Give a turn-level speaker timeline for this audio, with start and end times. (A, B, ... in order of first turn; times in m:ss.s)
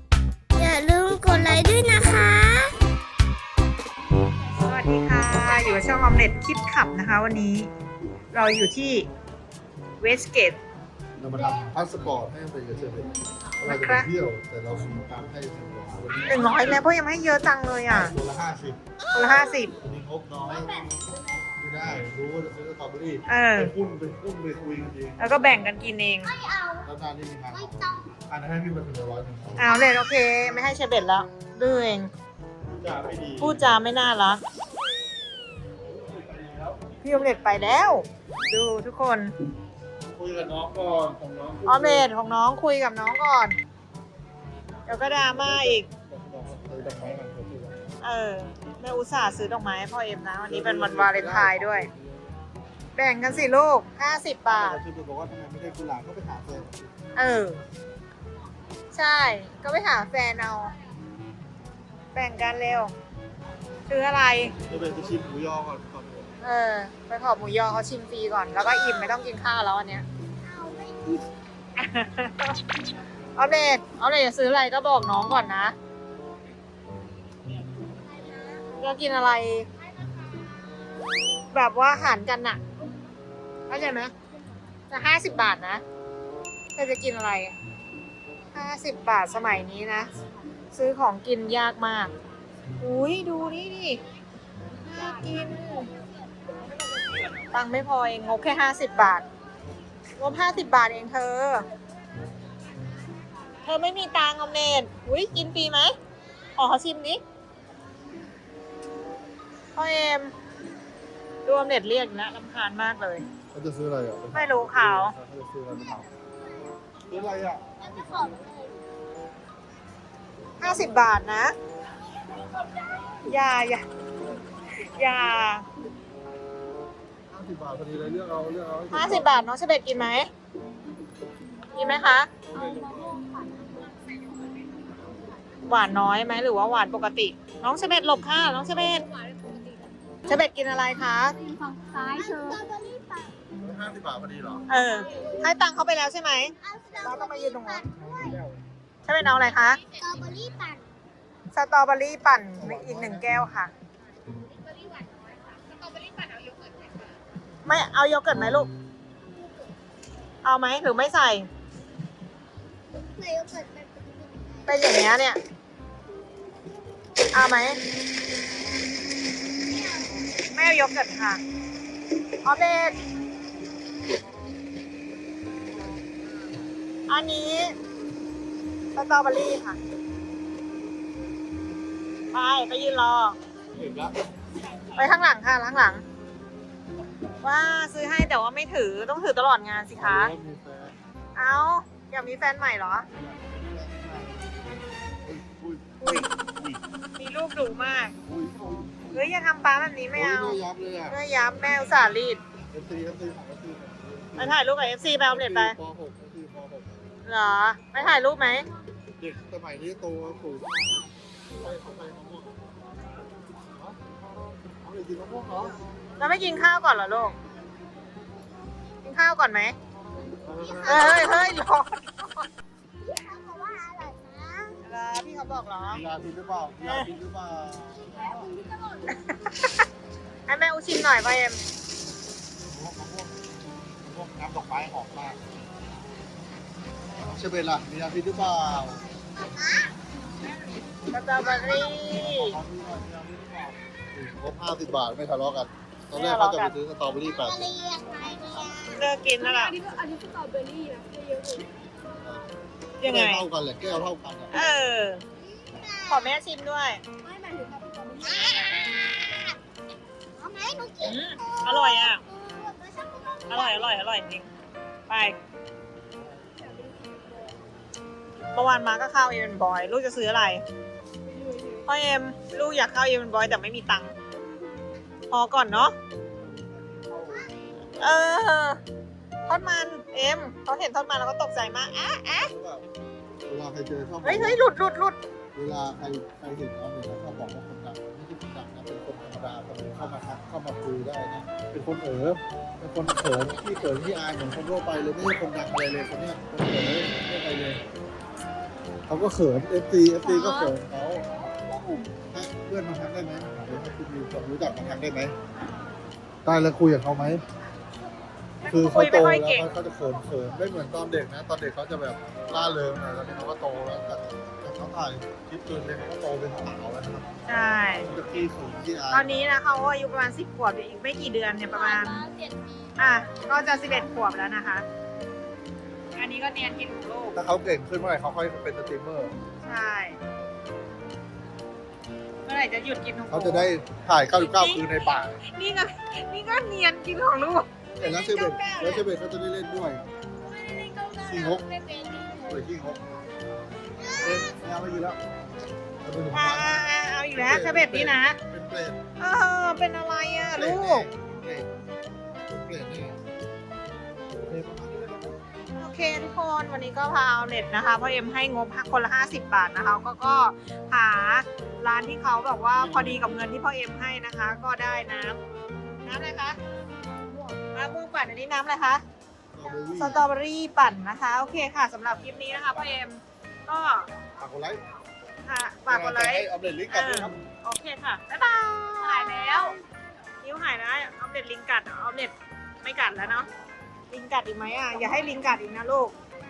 0:00.5-0:02.8 A
0:04.6-0:07.7 B
0:08.3-0:09.1 B
0:10.0-0:10.6 B
0:11.2-0:16.6 C
0:13.6-0:14.1 B
0:16.2-0:18.2 B
0:17.9-0:18.8 C
0:19.0-0:19.9 A
0:19.1-0:19.7 B
0:19.8-0:20.9 C
0:20.5-0:21.0 A
0:21.5-0:25.4 C
0:23.3-0:23.7 B
0:25.2-0:26.3 B
0:26.2-0:26.9 A
0:26.8-0:29.7 C
0:27.5-0:28.1 A
0:29.6-0:32.1 B
0:32.7-0:33.6 C
0:33.4-0:34.4 B
0:35.9-0:36.9 C
0:37.0-0:39.3 B
0:40.0-0:42.1 C
0:41.6-0:43.6 B
0:44.9-0:45.9 B
0:44.9-0:47.9 C
0:48.0-0:51.9 B
0:50.4-0:52.3 C
0:53.0-0:54.8 B
0:54.5-0:56.9 C
0:57.1-0:57.6 B
0:58.9-1:00.7 B
1:02.1-1:02.9 B
1:03.9-1:04.6 B
1:04.6-1:06.4 C
1:06.4-1:10.0 B
1:10.4-1:11.2 A
1:11.8-1:12.6 B
1:13.4-1:15.7 B
1:18.0-1:18.7 A
1:18.8-1:19.7 B
1:21.5-1:22.6 B
1:23.7-1:24.1 B
1:24.9-1:25.8 B
1:26.7-1:27.6 B
1:28.5-1:30.1 B
1:30.7-1:32.1 B
1:32.8-1:34.0 B
1:34.8-1:35.9 B
1:37.5-1:39.2 B
1:40.2-1:41.6 B
1:43.6-1:45.9 B
1:46.6-1:47.2 B
1:49.8-1:50.3 B
1:51.4-1:53.2 B
1:53.5-1:56.1 C
1:54.3-1:55.2 B
1:57.1-1:58.3 C
1:57.8-1:58.8 A
2:00.6-2:01.5 B
2:03.2-2:03.8 B
2:04.8-2:05.6 B
2:07.3-2:09.3 C
2:08.9-2:10.3 B
2:11.7-2:12.3 B
2:12.5-2:15.2 D
2:12.5-2:13.2 C
2:15.7-2:19.0 B
2:19.0-2:20.2 D
2:20.2-2:21.4 B
2:21.4-2:22.6 D
2:22.0-2:23.3 A
2:23.5-2:24.6 C
2:24.7-2:27.8 B
2:25.1-2:25.4 A
2:26.6-2:28.4 A
2:28.1-2:28.5 C
2:29.0-2:29.8 B
2:29.9-2:30.8 A
2:31.5-2:33.7 B
2:32.6-2:33.3 C
2:34.8-2:37.0 D
2:37.6-2:38.7 B
2:39.4-2:39.7 A
2:40.4-2:41.5 B
2:42.9-2:44.6 A
2:44.6-2:45.4 B
2:47.3-2:47.8 B
2:50.5-2:51.4 B
2:52.4-2:53.0 B
2:57.1-2:57.7 B
2:58.9-2:59.8 B
3:02.3-3:03.4 B
3:03.7-3:04.1 C
3:04.9-3:06.0 B
3:07.4-3:10.3 B
3:10.0-3:11.0 C
3:11.3-3:13.1 B
3:13.1-3:14.6 C
3:15.2-3:16.8 C
3:16.0-3:16.3 B
3:17.2-3:18.1 B
3:18.2-3:19.3 C
3:19.1-3:22.4 B
3:20.1-3:21.2 C
3:22.7-3:27.0 C
3:24.4-3:25.8 B
3:27.2-3:28.6 B
3:29.2-3:32.6 C
3:33.6-3:34.0 C
3:34.8-3:35.8 C
3:36.2-3:37.4 B
3:39.0-3:39.7 B
3:40.4-3:41.4 C
3:40.6-3:41.5 A
3:40.8-3:42.3 B
3:43.0-3:44.8 A
3:44.8-3:46.0 B
3:45.9-3:48.5 C
3:46.8-3:47.1 B
3:48.1-3:49.2 A
3:49.1-3:49.7 B
3:50.5-3:51.6 B
3:52.6-3:55.4 C
3:57.1-3:59.0 C
3:59.5-3:59.9 A
4:01.1-4:02.6 B
4:01.4-4:01.9 A
4:02.1-4:07.7 C
4:06.1-4:06.8 B
4:07.1-4:09.1 A
4:08.9-4:09.8 B
4:09.4-4:11.7 D
4:12.2-4:12.5 C
4:13.0-4:13.5 B
4:13.0-4:14.6 C
4:14.5-4:15.2 B
4:15.4-4:16.3 A
4:16.0-4:17.0 B
4:17.2-4:19.6 A
4:17.5-4:18.6 D
4:20.4-4:24.0 A
4:21.0-4:22.2 B
4:23.5-4:24.5 B
4:25.1-4:25.4 B
4:26.4-4:27.6 D
4:28.5-4:30.6 B
4:31.2-4:31.8 D
4:31.8-4:34.1 B
4:35.3-4:36.0 B
4:36.4-4:38.2 C
4:38.0-4:38.8 B
4:39.5-4:42.5 B
4:42.3-4:42.8 C
4:43.4-4:44.6 C
4:44.2-4:45.2 B
4:45.5-4:57.8 C
4:59.1-5:01.3 C
5:00.2-5:00.7 D
5:01.5-5:02.1 D
5:02.3-5:05.3 C
5:06.4-5:07.4 C
5:08.6-5:09.7 B
5:08.6-5:17.3 C
5:17.4-5:18.1 B
5:17.9-5:19.3 C
5:19.1-5:22.2 B
5:21.7-5:22.7 A
5:23.0-5:24.8 B
5:26.2-5:27.4 B
5:27.4-5:29.3 C
5:29.6-5:30.2 B
5:32.4-5:33.7 B
5:33.3-5:35.4 C
5:34.3-5:34.9 B
5:35.4-5:39.0 B
5:38.0-5:40.0 C
5:41.2-5:41.7 C
5:41.7-5:42.3 A
5:42.4-5:43.0 C
5:44.0-5:44.5 A
5:44.2-5:45.2 C
5:46.0-5:49.0 C
5:46.3-5:48.4 B
5:49.2-5:51.1 B
5:50.4-5:51.7 C
5:52.4-5:53.2 C
5:54.3-5:55.4 C
5:55.8-6:05.4 B
6:02.8-6:03.3 C
6:06.0-6:06.6 B
6:07.7-6:09.0 B
6:09.5-6:10.2 C
6:09.9-6:14.1 B
6:12.3-6:13.0 C
6:14.4-6:14.8 C
6:15.4-6:19.8 B
6:15.9-6:17.4 C
6:19.0-6:19.8 D
6:20.4-6:23.5 B
6:24.1-6:26.1 B